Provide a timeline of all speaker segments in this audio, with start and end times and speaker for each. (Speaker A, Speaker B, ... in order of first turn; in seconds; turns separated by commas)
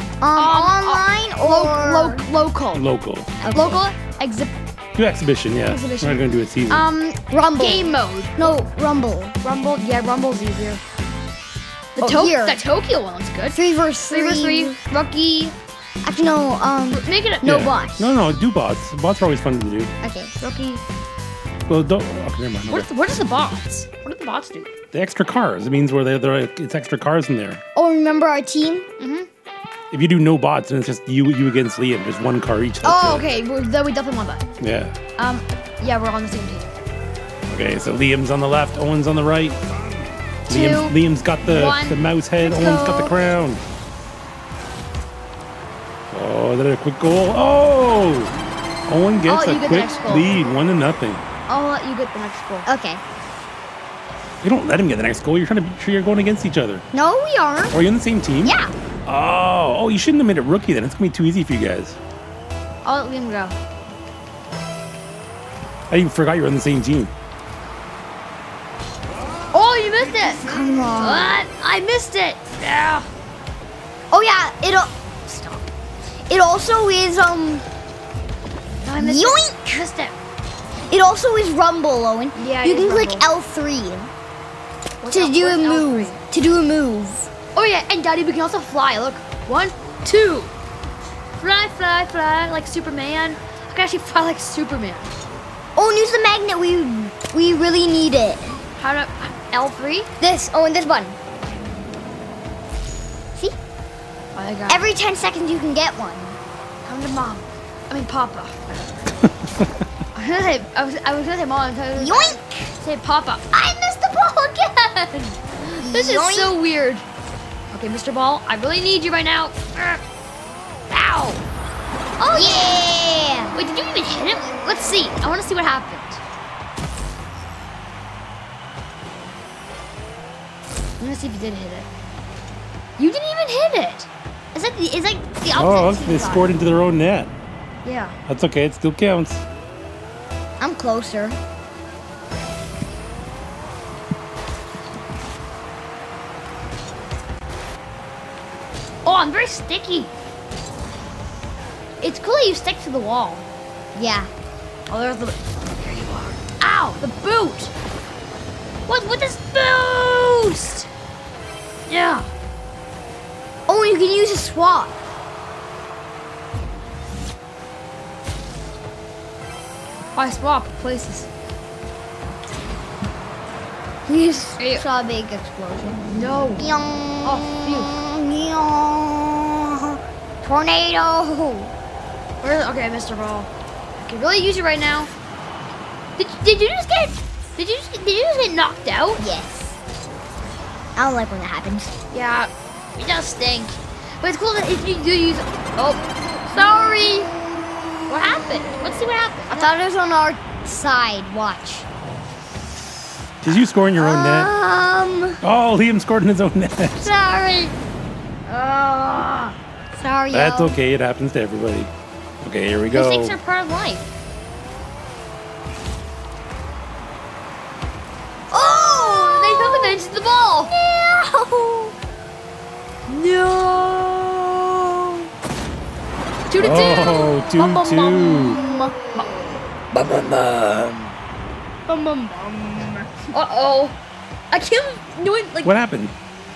Speaker A: 0.2-2.2, Speaker B: 0.3-2.9, Speaker C: 2.7-3.3, Speaker A: 3.4-3.9, Speaker B: 3.5-4.5, Speaker C: 5.0-6.9, Speaker B: 5.7-8.5, Speaker A: 7.3-9.4, Speaker B: 9.4-10.8, Speaker B: 12.0-13.6, Speaker A: 12.0-12.6, Speaker A: 13.5-14.8, Speaker B: 14.1-15.6, Speaker A: 16.0-18.1, Speaker B: 16.9-17.7, Speaker C: 17.4-19.9, Speaker A: 20.0-20.3, Speaker B: 20.4-20.8, Speaker C: 21.7-22.9, Speaker B: 22.7-24.7, Speaker C: 24.9-27.6, Speaker A: 27.8-28.9, Speaker B: 29.0-29.3, Speaker C: 29.9-33.3, Speaker B: 32.8-34.5, Speaker C: 34.6-34.9, Speaker B: 35.2-36.8, Speaker C: 37.5-39.6, Speaker B: 40.5-43.2, Speaker C: 40.5-43.6, Speaker C: 46.1-48.3, Speaker C: 48.9-51.2, Speaker B: 49.3-50.3, Speaker B: 51.5-52.7, Speaker A: 52.7-53.0, Speaker C: 54.4-56.9, Speaker A: 56.9-57.8, Speaker C: 57.7-62.0, Speaker A: 58.4-58.7, Speaker B: 62.8-63.6, Speaker C: 65.9-67.1, Speaker B: 69.5-70.4, Speaker A: 70.5-71.4, Speaker B: 71.0-73.1, Speaker A: 74.1-75.4, Speaker B: 75.3-75.6, Speaker A: 76.3-77.7, Speaker B: 78.8-80.2, Speaker A: 79.0-79.8, Speaker A: 80.9-84.1, Speaker B: 82.3-83.3, Speaker B: 85.0-86.2, Speaker A: 85.1-87.3, Speaker B: 87.5-90.5, Speaker B: 91.4-95.1, Speaker A: 95.8-98.6, Speaker B: 98.8-100.1, Speaker A: 100.2-101.2, Speaker B: 104.3-104.9, Speaker A: 104.7-106.4, Speaker B: 106.8-109.0, Speaker B: 110.2-117.0, Speaker A: 112.0-112.7, Speaker A: 115.8-116.6, Speaker B: 117.7-120.0, Speaker B: 120.9-121.4, Speaker B: 122.2-122.8, Speaker A: 122.3-123.5, Speaker B: 123.5-126.2, Speaker B: 131.0-131.9, Speaker B: 133.0-136.5, Speaker C: 135.5-137.3, Speaker B: 137.8-138.2, Speaker C: 138.3-139.4, Speaker A: 140.6-141.4, Speaker B: 149.1-150.1, Speaker B: 152.0-153.5, Speaker A: 153.9-154.3, Speaker B: 154.9-157.7, Speaker B: 158.9-160.9, Speaker B: 161.9-162.3, Speaker A: 163.7-164.9, Speaker B: 170.2-171.3, Speaker A: 174.1-181.7, Speaker B: 174.6-174.9, Speaker B: 176.1-176.7, Speaker B: 177.2-177.9, Speaker B: 182.4-185.1, Speaker B: 186.2-189.2, Speaker A: 189.2-189.8, Speaker A: 191.0-191.9, Speaker B: 192.1-196.0, Speaker A: 196.5-197.3, Speaker B: 198.1-199.7, Speaker A: 199.5-201.9, Speaker C: 203.4-204.5, Speaker A: 203.9-205.4, Speaker C: 205.4-207.1, Speaker A: 207.0-207.8, Speaker A: 208.5-210.8, Speaker C: 210.3-211.9, Speaker C: 212.4-213.4, Speaker B: 212.9-214.1, Speaker A: 218.5-220.0, Speaker B: 218.9-220.7, Speaker A: 220.7-221.9, Speaker B: 223.1-224.5, Speaker B: 226.5-228.6, Speaker C: 226.6-228.6, Speaker A: 228.5-228.9, Speaker C: 229.9-231.1, Speaker A: 231.9-233.1, Speaker B: 233.3-234.0, Speaker B: 234.5-235.7, Speaker C: 235.6-236.1